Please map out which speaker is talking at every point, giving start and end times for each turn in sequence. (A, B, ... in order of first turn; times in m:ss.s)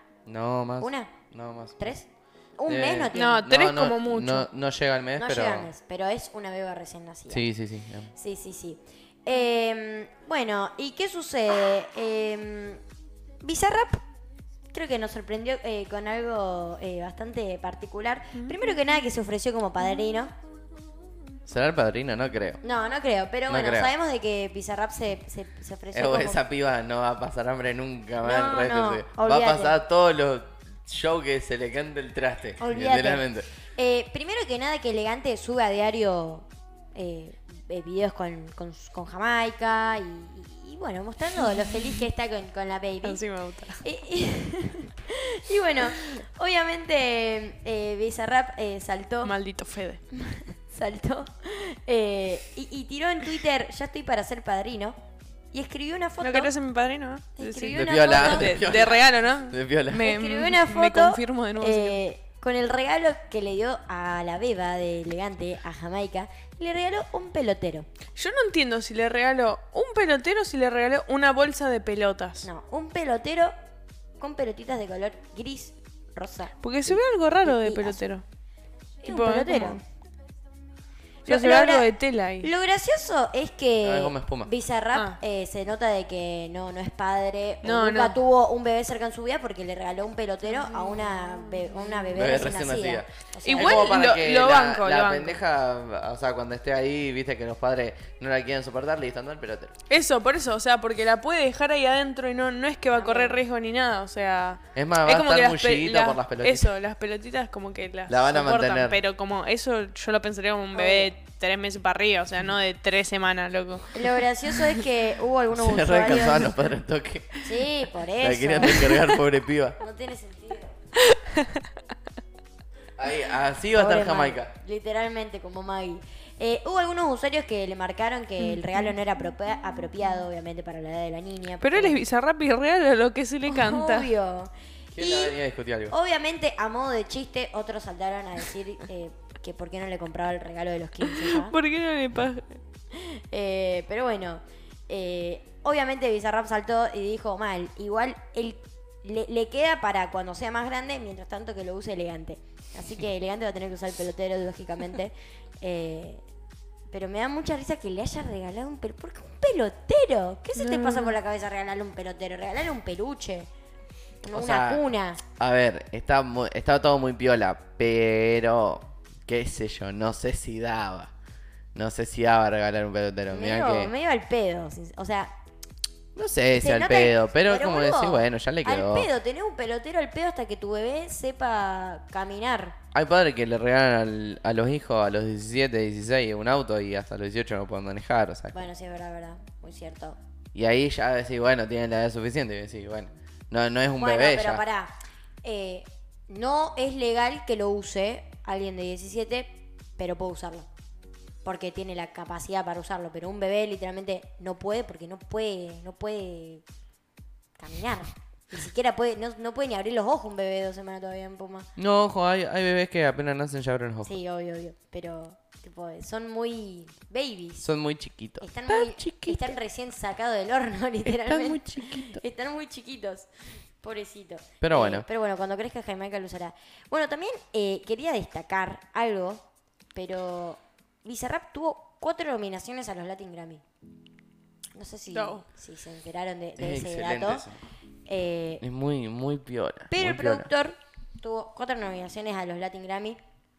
0:00.2-0:01.9 A
0:00.8-0:01.1 B
0:01.8-0:02.1 B
0:02.6-0:03.4 B
0:02.6-0:05.7 A
0:03.1-0:04.5 C
0:05.2-0:07.4 B
0:07.3-0:08.1 A
0:08.1-0:12.8 B
0:13.4-0:14.0 B
0:14.7-0:20.3 B
0:21.5-0:22.6 A
0:22.6-0:26.4 B
0:23.5-0:23.9 A
0:25.9-0:33.5 A
0:28.2-0:29.8 B
0:32.6-0:43.2 B
0:43.0-0:43.8 C
0:43.8-0:49.3 B
0:49.2-0:50.0 C
0:50.1-0:55.0 B
0:55.5-0:56.5 B
0:56.2-1:02.0 C
0:57.4-0:58.9 B
0:57.7-1:00.0 A
0:59.9-1:07.8 B
1:08.2-1:12.5 C
1:12.4-1:13.5 B
1:14.2-1:18.0 B
1:16.6-1:18.2 C
1:19.0-1:19.8 B
1:19.0-1:19.8 C
1:21.2-1:22.5 C
1:21.3-1:21.9 B
1:22.4-1:33.9 B
1:23.8-1:24.5 A
1:27.6-1:28.2 C
1:32.1-1:39.7 A
1:33.4-1:35.4 C
1:39.9-1:54.7 C
1:42.9-1:43.4 B
1:44.7-1:46.7 A
1:48.1-1:49.0 A
1:50.7-1:51.1 B
1:53.9-1:56.5 B
1:55.5-1:57.6 A
1:57.4-1:59.1 B
1:58.2-1:59.8 A
1:59.8-2:00.8 B
2:01.0-2:01.6 C
2:03.0-2:04.5 A
2:03.7-2:12.0 B
2:11.6-2:14.1 C
2:13.4-2:15.3 B
2:14.9-2:15.9 A
2:15.9-2:21.5 B
2:21.1-2:22.6 C
2:22.9-2:36.2 B
2:36.9-2:43.5 B
2:40.6-2:41.1 C
2:44.2-2:45.2 B
2:44.3-2:44.8 A
2:45.4-2:51.1 A
2:51.7-2:53.9 A
2:53.3-2:55.3 B
2:56.1-2:59.1 A
2:56.5-3:02.8 B
3:02.9-3:08.5 A
3:08.5-3:10.2 B
3:10.5-3:14.6 A
3:14.0-3:14.9 B
3:15.4-3:20.7 B
3:21.4-3:26.6 B
3:27.6-3:31.7 B
3:31.8-3:34.1 A
3:34.0-3:37.7 B
3:37.6-3:39.5 A
3:38.4-3:43.3 B
3:41.0-3:42.2 A
3:43.8-3:53.6 B
3:44.6-3:45.1 A
3:54.7-3:57.5 B
3:55.1-3:55.4 C
3:56.6-3:57.6 A
3:58.1-3:58.6 B
3:58.6-4:00.5 A
3:59.9-4:03.2 B